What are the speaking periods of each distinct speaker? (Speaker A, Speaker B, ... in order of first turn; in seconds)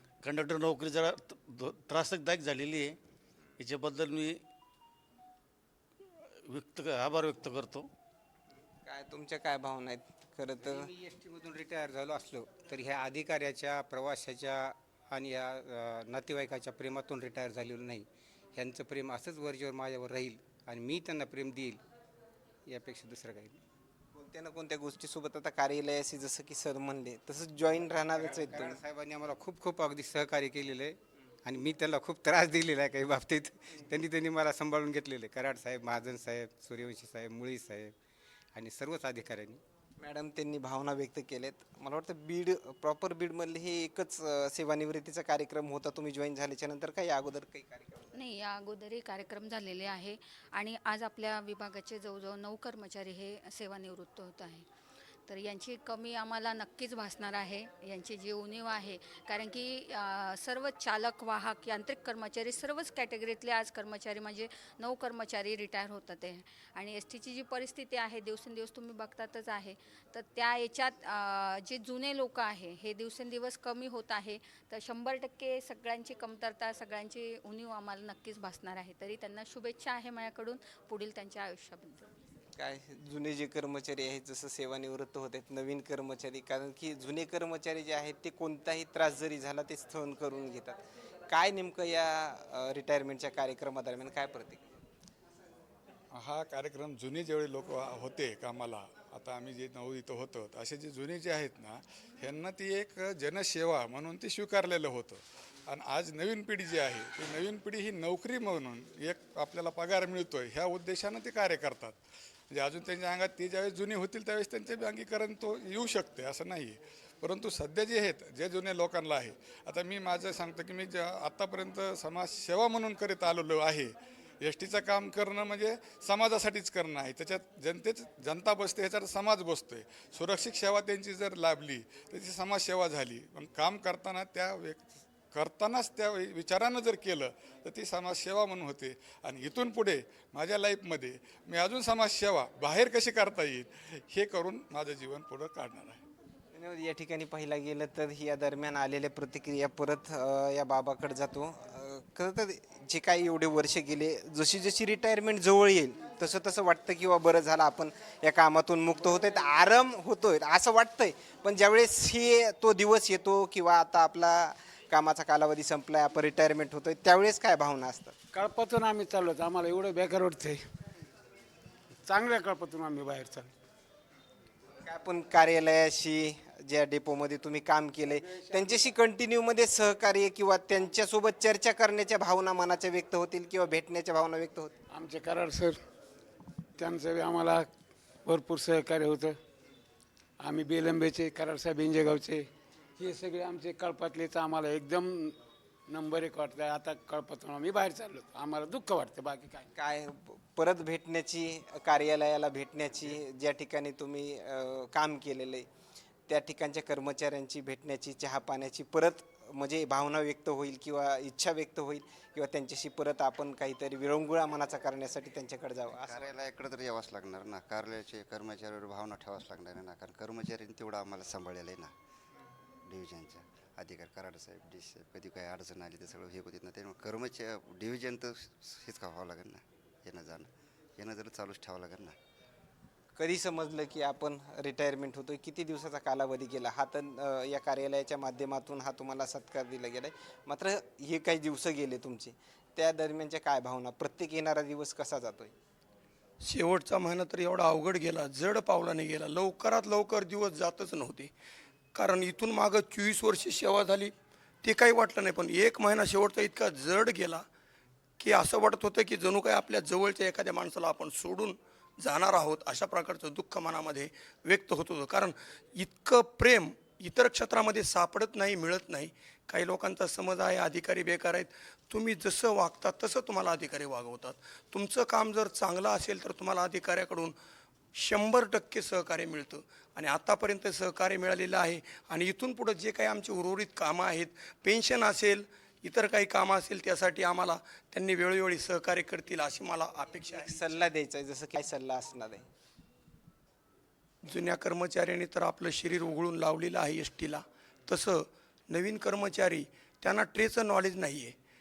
Speaker A: 0.2-3.0, 3.6-4.4, 6.4-7.9
Speaker B: 8.8-10.9, 24.1-28.8, 40.0-48.1, 82.5-94.7, 146.5-168.2, 174.8-184.7, 199.8-205.7, 206.3-216.3, 233.2-245.5, 290.3-292.4
Speaker C: 10.6-21.8, 22.7-23.6, 28.1-37.9, 38.5-39.6
Speaker D: 48.1-54.7, 55.3-82.1
Speaker E: 96.1-112.0, 112.5-146.0
Speaker F: 168.3-170.6, 172.1-173.5, 178.2-178.8, 184.9-185.8, 186.8-187.7, 188.2-189.3, 190.4-192.4, 193.0-195.3, 195.9-199.7
Speaker G: 215.9-221.9, 222.9-232.1
Speaker H: 246.4-251.3, 251.9-257.4, 258.2-277.4, 277.9-290.7, 294.2-301.3